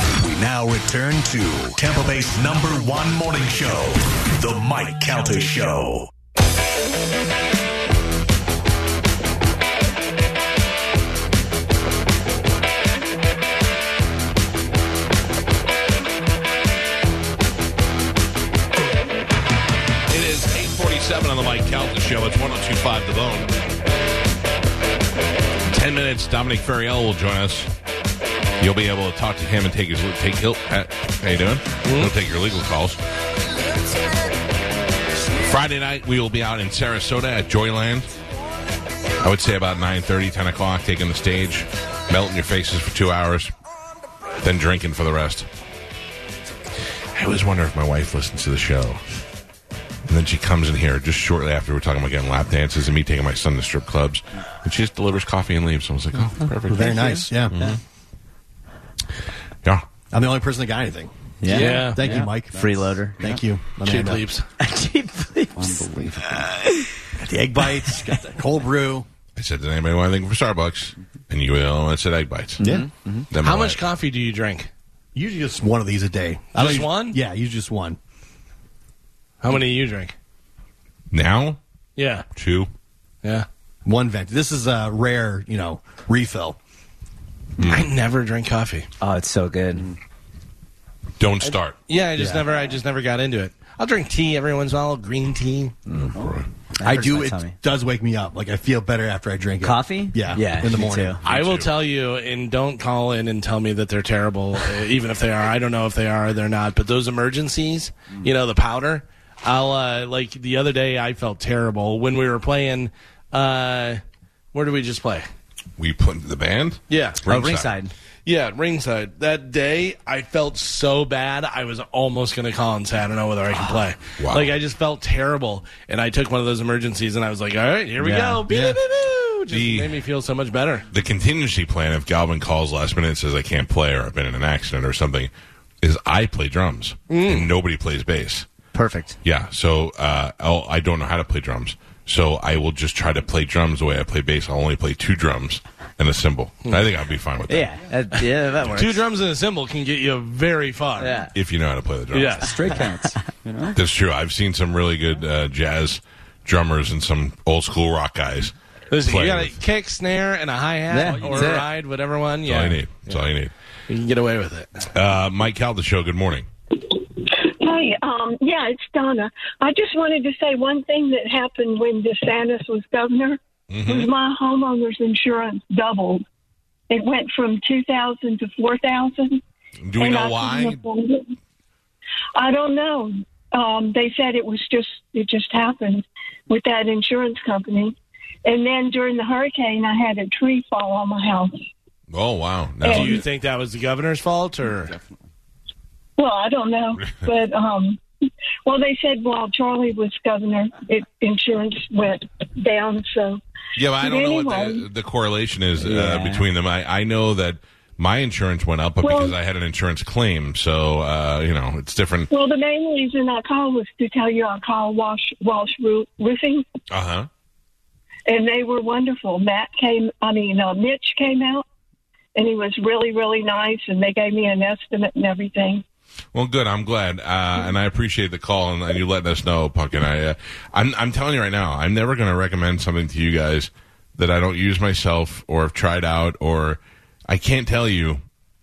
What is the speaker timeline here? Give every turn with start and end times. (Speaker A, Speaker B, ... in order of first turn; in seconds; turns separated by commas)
Speaker A: 0.2-6.1, Speaker B: 20.1-23.5, Speaker B: 25.7-27.7, Speaker B: 28.6-33.0, Speaker C: 31.9-32.1, Speaker B: 35.4-38.1, Speaker B: 39.2-43.5, Speaker B: 44.4-45.5, Speaker B: 47.1-49.0, Speaker B: 50.1-57.8, Speaker D: 56.7-57.6, Speaker D: 60.1-62.6, Speaker E: 61.4-61.9, Speaker F: 61.5-62.4, Speaker C: 61.5-62.0, Speaker E: 62.5-63.2, Speaker D: 63.2-64.2, Speaker C: 63.8-64.5, Speaker E: 64.6-66.8, Speaker F: 65.5-66.5, Speaker D: 67.2-69.1, Speaker B: 69.4-72.6, Speaker E: 72.6-73.3, Speaker D: 72.6-72.9, Speaker B: 73.3-73.8, Speaker C: 73.4-74.7, Speaker D: 75.2-78.0, Speaker C: 76.5-77.2, Speaker C: 79.4-80.1, Speaker B: 81.1-81.6, Speaker C: 82.0-82.3, Speaker B: 82.3-82.7, Speaker D: 83.8-86.6, Speaker B: 87.6-87.9, Speaker C: 87.6-88.9, Speaker E: 89.0-89.9, Speaker B: 91.2-91.8, Speaker C: 91.9-95.8, Speaker B: 96.0-96.5, Speaker E: 96.8-97.5, Speaker D: 96.8-101.2, Speaker E: 99.6-101.2, Speaker B: 101.2-101.8, Speaker C: 101.3-114.0, Speaker C: 114.5-115.3, Speaker B: 115.8-117.7, Speaker C: 116.9-117.2, Speaker E: 117.3-117.9, Speaker C: 118.3-130.8, Speaker B: 124.2-124.5, Speaker E: 128.0-128.4, Speaker D: 128.5-128.8, Speaker B: 129.5-129.9, Speaker B: 130.9-138.5, Speaker C: 137.1-137.5, Speaker E: 138.7-139.2, Speaker B: 139.2-147.7, Speaker E: 147.5-149.0, Speaker C: 148.6-151.2, Speaker E: 151.0-151.3, Speaker B: 151.3-152.4, Speaker C: 152.1-152.5, Speaker F: 152.4-153.8, Speaker B: 153.8-159.5, Speaker C: 158.9-163.2, Speaker F: 160.9-161.7, Speaker B: 162.4-163.5, Speaker C: 163.9-164.8, Speaker B: 164.9-166.5, Speaker G: 166.9-176.2, Speaker B: 173.7-174.1, Speaker G: 176.9-179.4, Speaker B: 179.8-180.8, Speaker G: 180.0-181.3, Speaker G: 182.3-191.6, Speaker B: 192.1-193.2, Speaker G: 192.8-193.2, Speaker C: 192.8-194.9, Speaker G: 196.2-198.0, Speaker G: 198.7-203.4, Speaker B: 203.8-212.3, Speaker G: 203.9-204.9, Speaker E: 205.8-206.4, Speaker G: 209.0-209.3, Speaker G: 212.3-216.7, Speaker B: 216.9-217.3, Speaker G: 218.3-221.6, Speaker G: 222.3-225.8, Speaker B: 226.3-238.2